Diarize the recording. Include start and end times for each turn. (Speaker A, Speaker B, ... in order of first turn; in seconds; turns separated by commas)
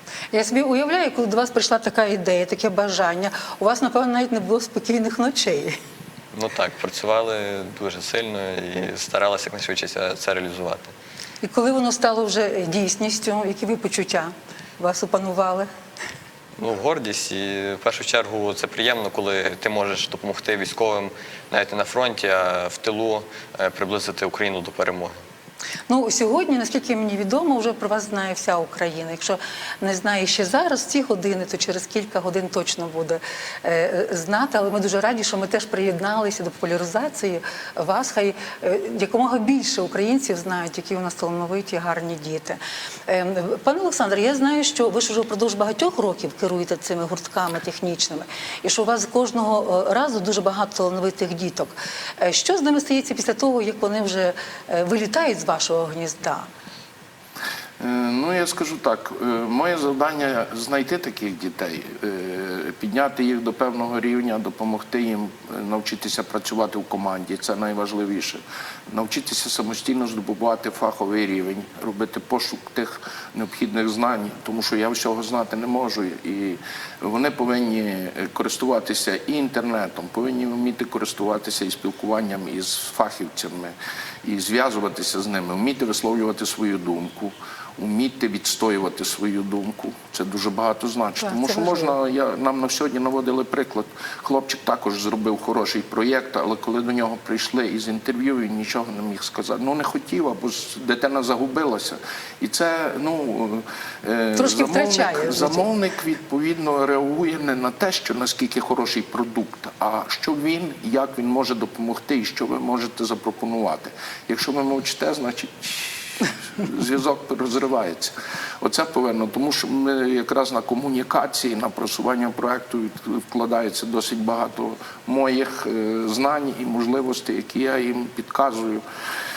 Speaker A: 0.3-5.7, Speaker B: 6.3-10.9, Speaker A: 11.4-15.7, Speaker B: 16.6-25.1, Speaker A: 25.9-56.5, Speaker C: 57.8-128.8, Speaker A: 91.2-91.9, Speaker A: 104.4-105.7